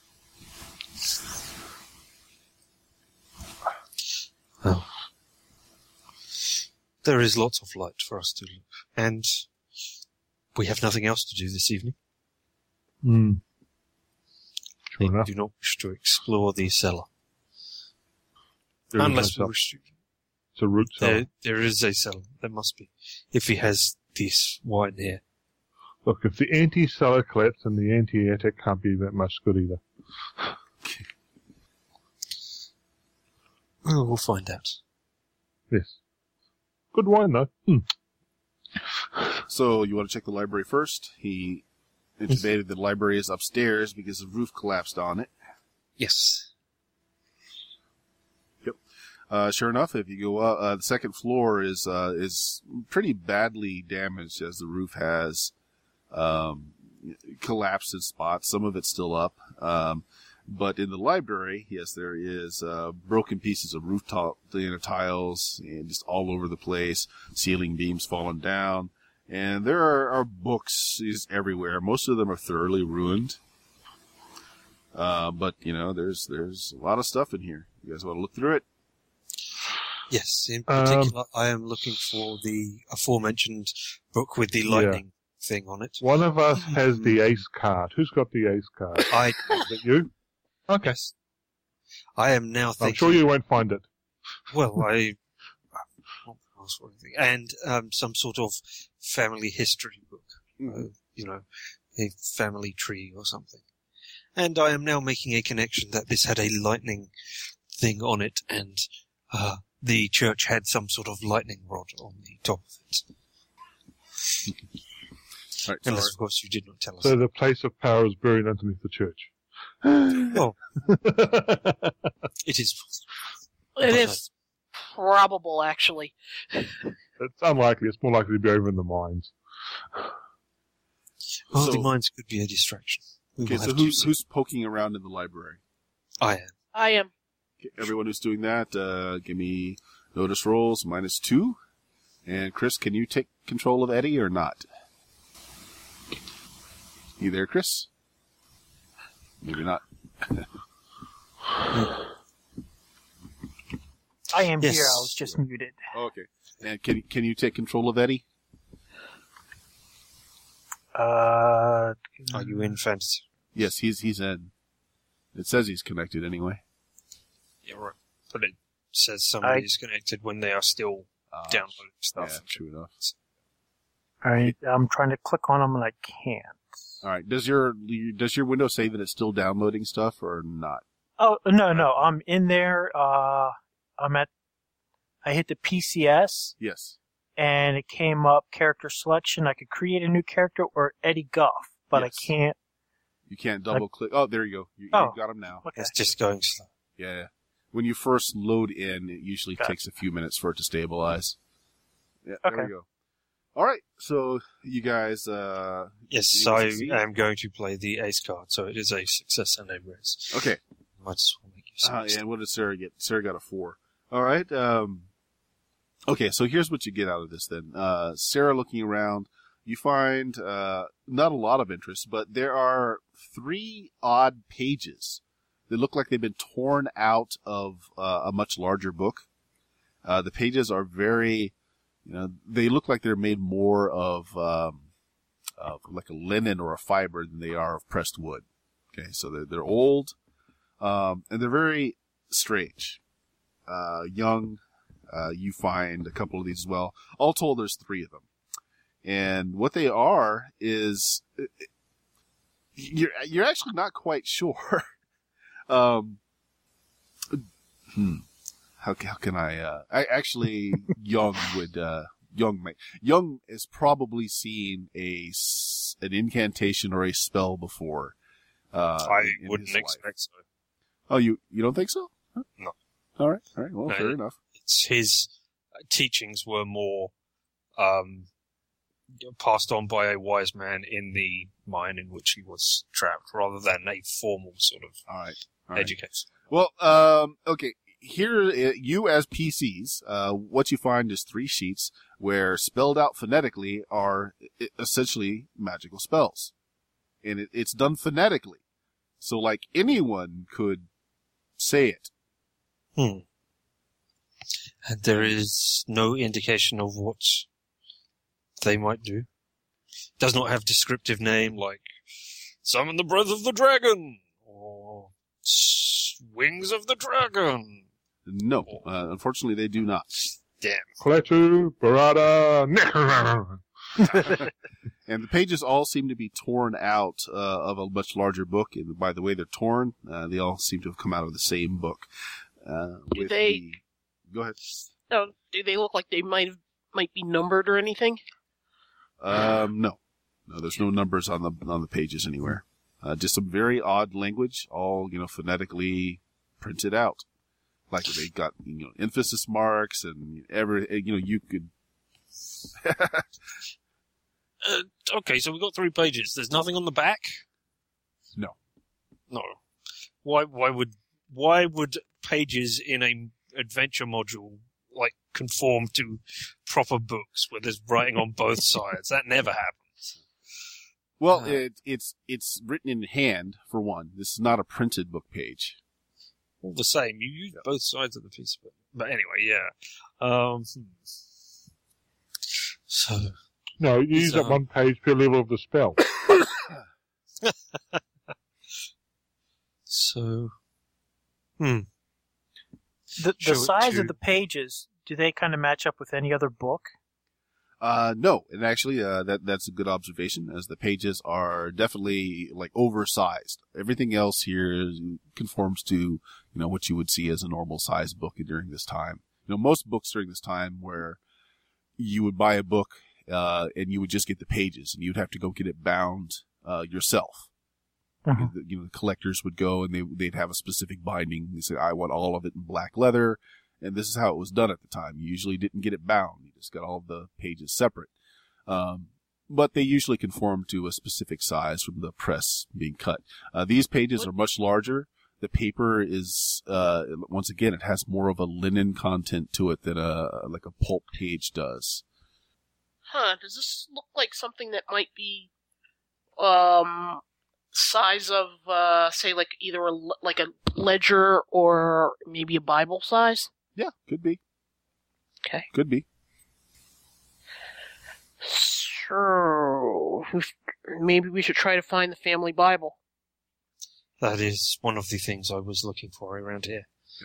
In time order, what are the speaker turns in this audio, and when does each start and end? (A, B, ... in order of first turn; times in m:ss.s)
0:04.6-0:04.9 A
0:07.0-0:09.5 A
0:10.6-0:12.0 A
0:13.0-0:13.4 B
0:14.9-0:15.3 B
0:15.0-0:17.1 A
0:18.9-0:19.5 B
0:19.0-0:19.8 A
0:20.6-0:21.2 B
0:21.0-0:25.2 A
0:26.0-0:29.8 B
0:33.8-0:34.8 A
0:35.7-0:36.0 B
0:36.9-0:37.9 B
0:39.5-0:41.6 C
0:42.2-0:45.3 C
0:46.0-0:46.5 A
0:49.3-0:55.5 C
0:56.1-1:13.4 C
1:14.9-1:18.6 C
1:20.1-1:26.0 A
1:20.7-1:21.2 B
1:24.7-1:25.0 B
1:26.0-1:30.1 B
1:29.1-1:29.6 A
1:30.7-1:31.0 B
1:30.8-1:31.1 A
1:32.2-1:33.2 A
1:32.8-1:33.9 B
1:34.5-1:35.2 A
1:36.2-1:43.6 A
1:40.6-1:40.9 C
1:44.4-1:47.1 A
1:47.7-1:53.0 A
1:55.6-1:56.1 C
1:55.8-1:57.2 A
1:57.0-1:59.3 B
1:59.8-2:02.1 B
2:00.3-2:00.6 A
2:02.4-2:03.0 A
2:03.8-2:04.3 D
2:03.8-2:04.2 A
2:04.9-2:06.9 D
2:07.2-2:09.3 B
2:11.5-2:14.1 A
2:11.5-2:11.9 C
2:13.4-2:15.6 C
2:16.2-2:16.5 A
2:16.7-2:17.1 D
2:17.6-2:21.6 C
2:22.3-2:24.6 C
2:27.2-2:27.9 C
2:29.4-2:30.5 C
2:31.7-2:32.0 A
2:34.3-2:35.8 E
2:34.6-2:35.2 A
2:35.9-2:38.2 C
2:40.9-2:42.7 E
2:42.3-2:43.2 A
2:43.6-2:44.5 C
2:45.3-2:46.6 C
2:47.6-2:53.1 A
2:51.3-2:52.9 C
2:54.2-2:56.6 E
2:57.0-3:00.8 C
3:01.2-3:04.3 E
3:01.7-3:02.0 C
3:05.2-3:06.6 E
3:06.6-3:07.0 C
3:07.4-3:12.6 E
3:11.9-3:12.3 C
3:13.3-3:15.7 C
3:14.9-3:15.9 E
3:15.8-3:16.7 A
3:17.0-3:21.4 C
3:22.3-3:22.9 C
3:22.4-3:22.7 E
3:23.6-3:27.0 C
3:26.1-3:30.4 A
3:30.3-3:30.6 C
3:31.0-3:32.2 A
3:31.8-3:35.1 C
3:36.1-3:49.3 C
3:50.0-3:51.5 C
3:52.0-3:54.9 C
3:55.6-4:00.2 C
4:00.8-4:03.0 C
4:03.7-4:08.3 C
4:09.0-4:11.7 C
4:12.8-4:14.9 C
4:15.7-4:16.2 C
4:17.3-4:18.2 C
4:18.8-4:28.2 C
4:28.7-4:30.0 C
4:29.0-4:30.4 A
4:31.1-4:32.4 C
4:33.2-4:34.4 C
4:33.9-4:35.3 A
4:35.9-4:37.1 A
4:37.8-4:38.3 A
4:39.2-4:45.0 A
4:45.1-4:46.0 C
4:45.8-4:46.3 A
4:46.5-4:56.5 C
4:57.2-4:58.6 C
4:59.2-5:00.9 C
5:01.6-5:02.1 C
5:03.0-5:03.2 A
5:04.8-5:07.5 A
5:08.6-5:09.3 A
5:10.2-5:11.9 A
5:12.6-5:17.9 A
5:18.3-5:20.3 C
5:20.6-5:21.0 A
5:21.0-5:23.6 B
5:25.1-5:32.1 C
5:32.6-5:34.8 C
5:33.1-5:33.6 D
5:35.1-5:38.2 D
5:39.2-5:47.2 C
5:47.9-5:51.7 C
5:52.8-5:53.3 C
5:54.6-5:57.4 A
5:59.3-5:59.6 A
6:00.2-6:10.2 A
6:11.2-6:15.8 C
6:16.6-6:20.9 A
6:22.9-6:23.4 A
6:23.8-6:26.0 B
6:24.1-6:24.6 A
6:27.4-6:28.0 A
6:29.9-6:30.6 A
6:31.6-6:31.9 A
6:33.2-6:36.9 E
6:33.4-6:34.1 A
6:37.8-6:51.2 C
6:52.0-6:57.5 C
6:58.2-6:58.5 E
6:58.3-7:08.1 C
7:08.7-7:22.0 C
7:23.1-7:25.5 D
7:26.4-7:27.2 D
7:27.7-7:33.5 D
7:33.8-7:34.4 C
7:35.7-7:36.0 C
7:38.4-7:43.0 D
7:44.2-7:46.9 A